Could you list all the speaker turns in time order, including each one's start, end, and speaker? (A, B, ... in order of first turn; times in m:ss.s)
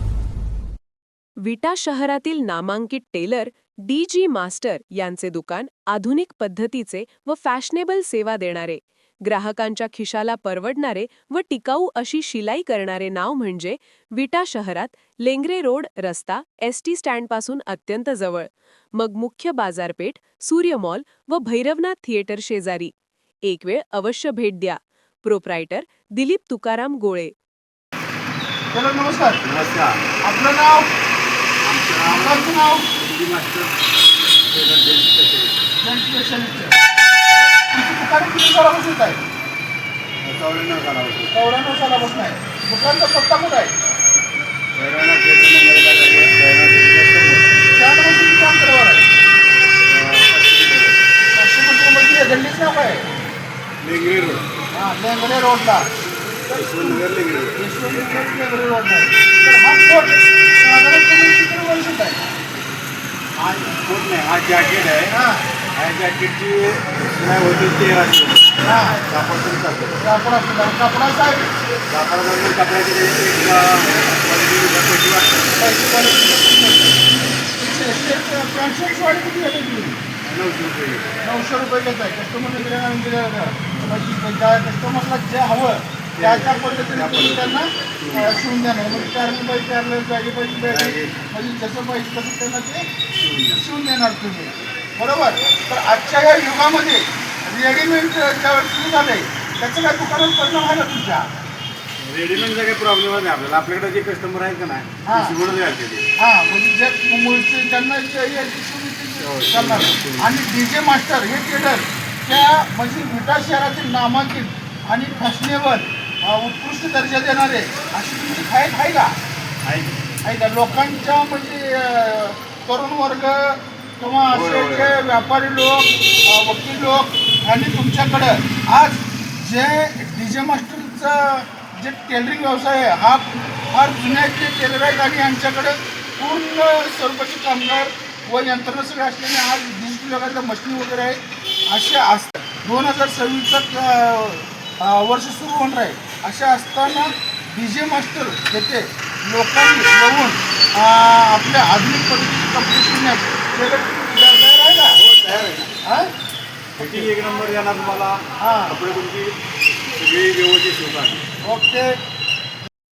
0:01.4-0:27.3 A
0:28.7-0:29.4 B
0:29.4-0:30.0 C
0:30.2-0:30.9 B
0:31.6-0:33.7 C
0:32.0-0:32.9 B
0:34.5-0:35.6 C
0:35.8-0:36.8 B
0:37.7-0:39.2 B
0:40.2-0:41.3 C
0:41.3-0:43.7 B
0:44.7-0:47.6 C
0:47.7-0:49.1 B
0:49.8-0:51.0 C
0:51.3-0:53.1 B
0:53.8-0:54.5 C
0:54.7-0:55.9 B
0:56.5-0:57.0 B
0:56.5-0:57.6 C
0:57.6-1:02.2 B
1:03.4-1:05.1 C
1:05.1-1:05.4 B
1:05.8-1:10.0 C
1:08.6-1:09.0 B
1:10.0-1:11.5 B
1:11.9-1:15.5 C
1:15.6-1:17.0 B
1:17.6-1:20.0 B
1:20.2-1:21.1 C
1:21.2-1:32.9 B
1:26.2-1:29.1 C
1:30.7-1:31.2 C
1:33.2-1:33.6 C
1:33.6-1:41.3 B
1:42.0-1:46.1 C
1:45.0-1:45.4 B
1:46.2-1:59.2 B
1:49.2-1:50.3 C
1:59.6-2:00.0 C
2:00.2-2:35.0 B
2:04.3-2:05.0 C
2:35.0-2:35.8 C
2:35.8-2:36.1 B
2:36.8-2:39.3 C
2:38.4-2:38.8 B
2:39.9-2:41.2 C
2:41.4-2:41.9 B